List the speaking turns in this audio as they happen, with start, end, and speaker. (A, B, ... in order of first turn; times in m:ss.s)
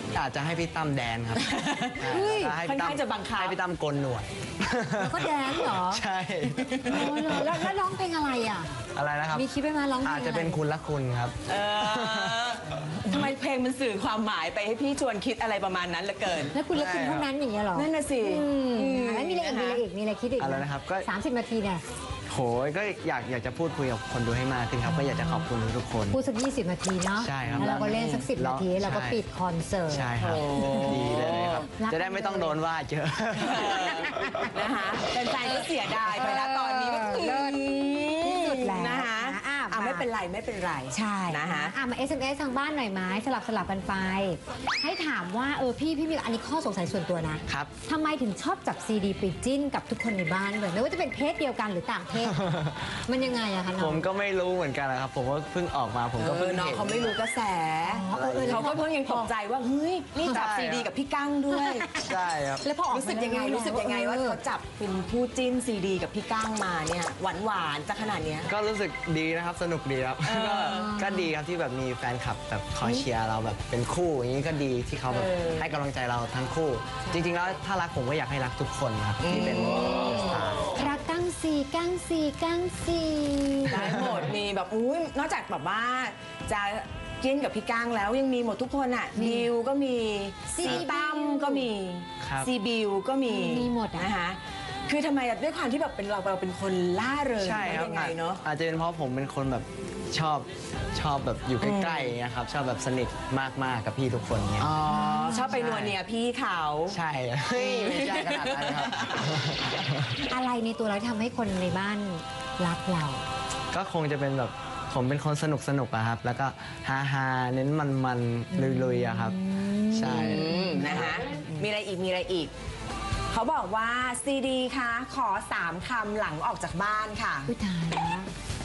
0:00.1-0:07.6 A
0:01.4-0:03.6 B
0:02.0-0:02.6 C
0:05.0-0:06.0 C
0:06.6-0:07.1 B
0:06.8-0:08.7 C
0:09.0-0:09.5 A
0:09.3-0:10.6 C
0:10.0-0:12.4 A
0:11.5-0:16.6 B
0:16.5-0:21.8 C
0:16.7-0:17.3 A
0:17.7-0:19.8 B
0:20.4-0:21.1 A
0:22.3-0:26.2 A
0:24.9-0:25.4 C
0:26.1-0:31.0 C
0:27.2-0:29.2 A
0:27.4-0:28.3 B
0:29.9-0:34.6 A
0:30.2-0:31.7 B
0:31.8-0:32.6 C
0:33.4-0:41.8 B
0:33.7-0:34.5 C
0:35.4-0:40.1 C
0:40.9-0:52.4 C
0:52.2-0:53.0 A
0:53.0-0:54.1 C
0:53.8-0:57.2 A
0:56.2-1:01.9 B
0:57.8-0:59.3 C
0:58.1-0:58.8 A
1:00.2-1:00.6 C
1:00.3-1:00.9 A
1:01.5-1:04.4 C
1:02.0-1:02.6 A
1:02.9-1:08.5 B
1:08.5-1:20.9 A
1:10.2-1:10.9 B
1:10.6-1:11.3 C
1:15.1-1:15.7 B
1:19.2-1:20.5 B
1:20.7-1:23.9 C
1:23.7-1:38.4 B
1:23.8-1:24.3 A
1:29.2-1:29.5 C
1:30.5-1:31.7 C
1:32.2-1:32.5 A
1:33.3-1:34.1 C
1:37.4-1:44.7 A
1:41.6-1:42.2 B
1:44.6-1:47.0 B
1:44.9-1:45.6 C
1:45.5-1:46.0 A
1:46.9-1:50.2 A
1:47.5-1:49.3 B
1:50.3-1:53.2 C
1:53.7-1:59.4 A
1:58.5-2:01.0 C
1:59.9-2:01.2 A
2:00.0-2:02.5 B
2:03.3-2:07.5 B
2:07.5-2:08.3 C